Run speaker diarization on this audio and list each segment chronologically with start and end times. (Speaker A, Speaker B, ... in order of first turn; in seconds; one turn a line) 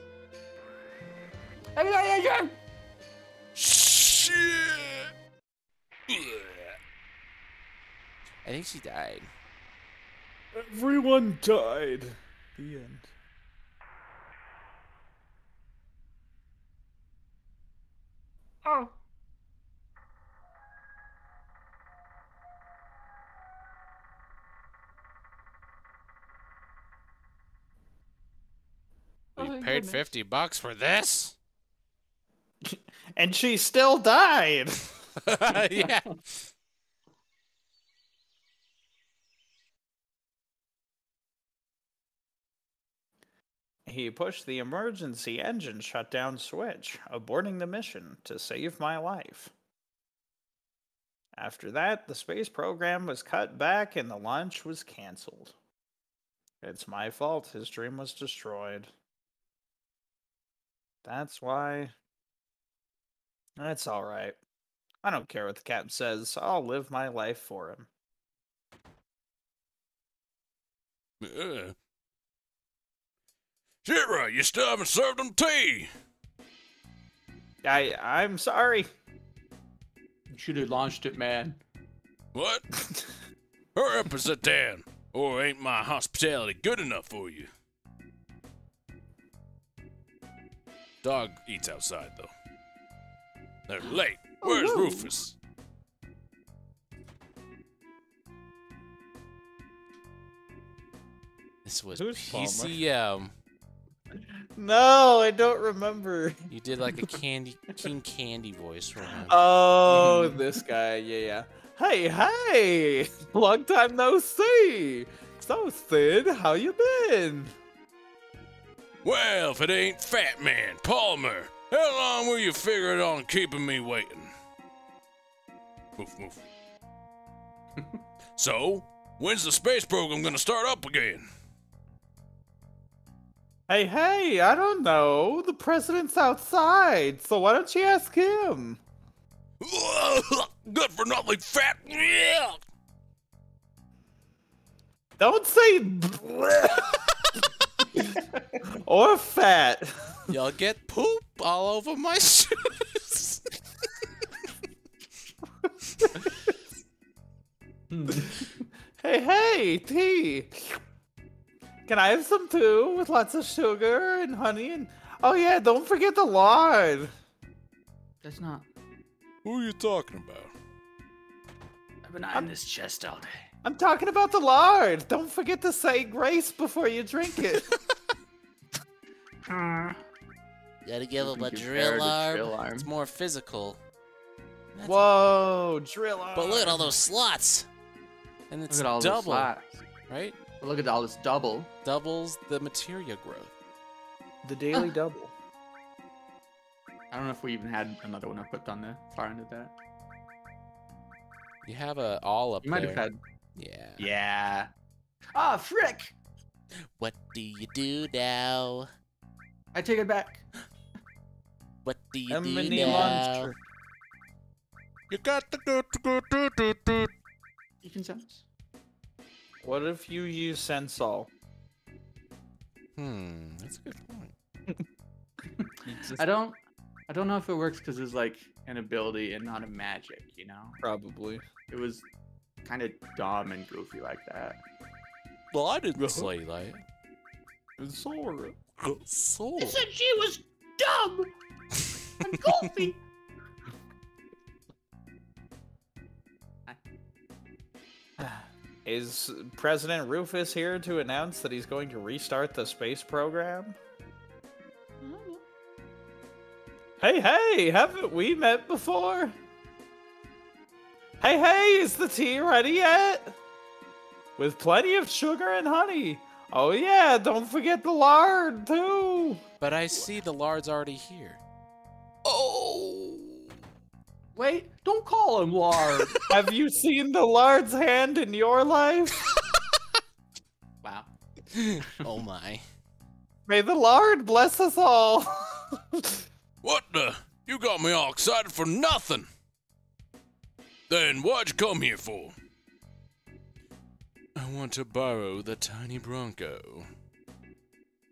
Speaker A: 1.8-2.5
Speaker B: 3.5-5.1
Speaker B: 6.1-6.8
Speaker C: 8.4-9.3
Speaker D: 10.5-13.1
Speaker C: 29.4-31.4
Speaker A: 29.4-30.0
Speaker D: 32.6-34.9
Speaker C: 35.2-36.2
Speaker A: 35.5-35.9
Speaker D: 43.9-49.5
Speaker D: 51.4-55.5
Speaker D: 56.6-58.9
Speaker D: 61.0-61.9
Speaker D: 63.6-64.3
Speaker D: 65.0-67.9
Speaker B: 71.2-71.7
Speaker B: 73.8-75.9
Speaker D: 77.6-78.9
Speaker A: 80.3-81.6
Speaker B: 82.3-82.7
Speaker B: 83.7-87.5
Speaker B: 91.0-92.3
Speaker B: 93.7-95.3
Speaker A: 94.4-95.1
Speaker C: 101.6-103.3
Speaker D: 101.9-102.8
Speaker D: 104.5-106.4
Speaker C: 106.5-109.5
Speaker D: 109.2-117.5
Speaker A: 109.8-110.4
Speaker B: 119.0-124.3
Speaker B: 126.0-126.4
Speaker B: 128.4-131.2
Speaker D: 133.7-138.8
Speaker B: 139.6-142.6
Speaker D: 145.2-147.1
Speaker A: 148.0-148.6
Speaker D: 148.7-150.2
Speaker C: 150.3-153.4
Speaker A: 157.9-158.6
Speaker D: 159.0-160.8
Speaker D: 161.9-167.1
Speaker A: 168.2-168.7
Speaker B: 169.4-170.5
Speaker A: 172.0-173.3
Speaker D: 173.6-177.7
Speaker A: 179.4-180.0
Speaker C: 180.8-183.8
Speaker A: 181.2-182.9
Speaker C: 184.7-185.1
Speaker D: 184.8-186.9
Speaker C: 186.3-187.7
Speaker C: 188.5-189.5
Speaker A: 188.7-189.7
Speaker C: 190.1-190.4
Speaker A: 190.6-191.7
Speaker C: 191.8-193.5
Speaker D: 194.4-195.3
Speaker A: 197.1-199.7
Speaker C: 201.6-204.1
Speaker A: 202.6-203.2
Speaker A: 204.0-204.7
Speaker A: 205.3-206.1
Speaker C: 207.0-208.9
Speaker A: 209.7-210.4
Speaker C: 211.8-213.5
Speaker D: 212.3-213.5
Speaker A: 212.7-213.2
Speaker B: 215.1-217.1
Speaker C: 215.3-215.6
Speaker A: 217.8-218.4
Speaker D: 219.6-221.3
Speaker C: 222.9-224.3
Speaker A: 225.6-230.8
Speaker D: 225.8-226.2
Speaker D: 230.8-231.4
Speaker A: 231.7-232.1
Speaker A: 232.6-234.6
Speaker B: 235.5-236.3
Speaker C: 235.9-236.8
Speaker D: 237.8-238.6
Speaker C: 238.9-239.8
Speaker A: 239.6-241.3
Speaker A: 242.2-243.0
Speaker D: 248.2-253.8
Speaker A: 255.0-255.4
Speaker D: 257.0-259.3
Speaker D: 261.2-263.4
Speaker D: 264.4-269.4
Speaker C: 269.6-271.4
Speaker B: 272.3-272.8
Speaker A: 274.3-276.2
Speaker D: 276.3-279.3
Speaker A: 280.8-281.1
Speaker C: 281.5-282.6
Speaker D: 283.5-286.2
Speaker B: 286.6-289.3
Speaker B: 290.9-292.3
Speaker C: 294.4-296.8